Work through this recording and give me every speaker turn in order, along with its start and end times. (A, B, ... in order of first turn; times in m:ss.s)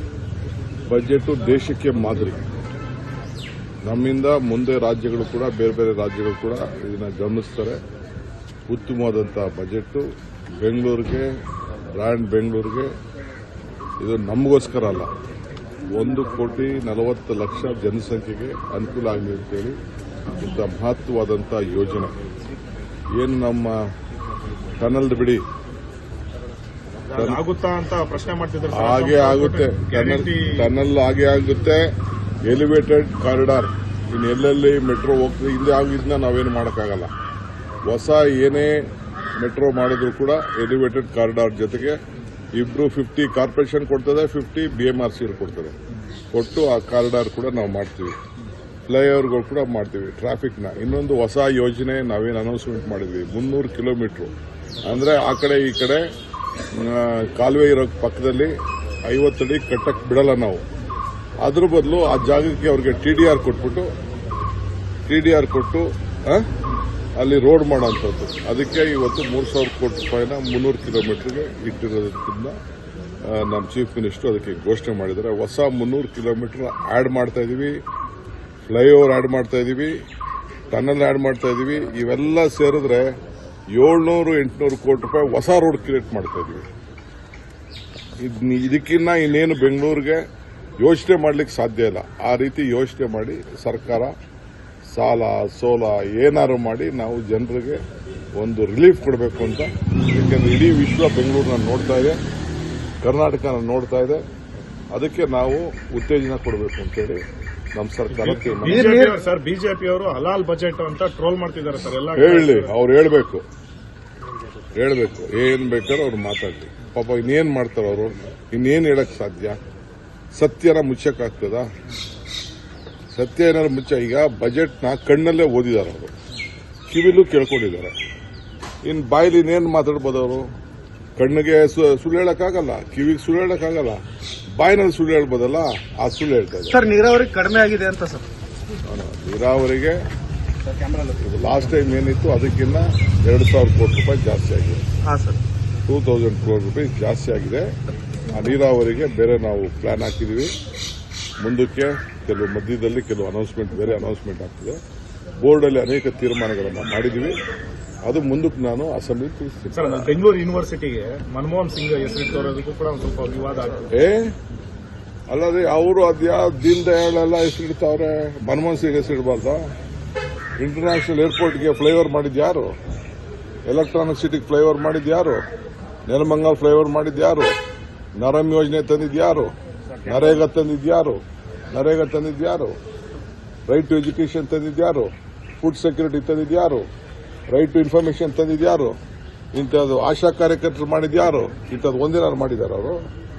0:00.9-0:02.4 A
0:03.8-0:07.8 A
0:08.7-0:10.0 A
0:10.6-0:11.3 A
0:11.9-0:12.9 A
0:14.0-0:15.1 A
0:15.9-0:19.8 A
0:20.3-0:22.1 A
0:23.2-0:23.8 A
0:24.8-0:25.4 A
0:27.1-0:30.7 B
0:27.1-0:27.4 A
0:28.7-0:31.9 A
0:32.4-0:37.1 A
0:37.8-0:38.9 A
0:39.4-0:42.0 A
0:42.5-0:45.8 A
0:46.3-0:48.2 A
0:48.9-0:56.0 A
0:56.7-0:58.5 A
0:59.1-1:00.6 A
1:01.4-1:03.9 A
1:05.1-1:06.5 A
1:07.2-1:12.6 A
1:13.2-1:17.8 A
1:18.7-1:19.9 A
1:20.7-1:23.1 A
1:23.7-1:26.6 A
1:28.2-1:30.2 A
1:30.8-1:34.1 A
1:34.9-1:37.8 A
1:38.4-1:42.2 A
1:43.0-1:44.2 A
1:44.9-1:47.2 A
1:47.7-1:48.9 A
1:48.1-1:52.7 B
1:48.6-1:49.2 C
1:52.2-1:53.4 A
1:54.7-1:59.6 A
2:00.3-2:01.7 A
2:03.1-2:06.1 A
2:06.9-2:07.9 A
2:08.8-2:10.4 A
2:11.2-2:14.0 A
2:14.6-2:16.8 A
2:16.7-2:18.2 C
2:18.9-2:20.0 A
2:21.2-2:24.8 A
2:25.0-2:25.4 C
2:25.8-2:27.7 A
2:28.3-2:30.5 A
2:31.4-2:34.8 A
2:35.4-2:37.4 A
2:38.0-2:40.2 A
2:39.7-2:43.9 B
2:43.9-2:44.3 A
2:45.3-2:49.7 A
2:50.6-2:52.7 A
2:53.7-2:55.4 A
2:56.1-2:57.5 A
2:58.2-3:01.2 A
3:01.7-3:02.7 A
3:03.7-3:06.8 A
3:07.5-3:09.0 A
3:09.5-3:13.0 A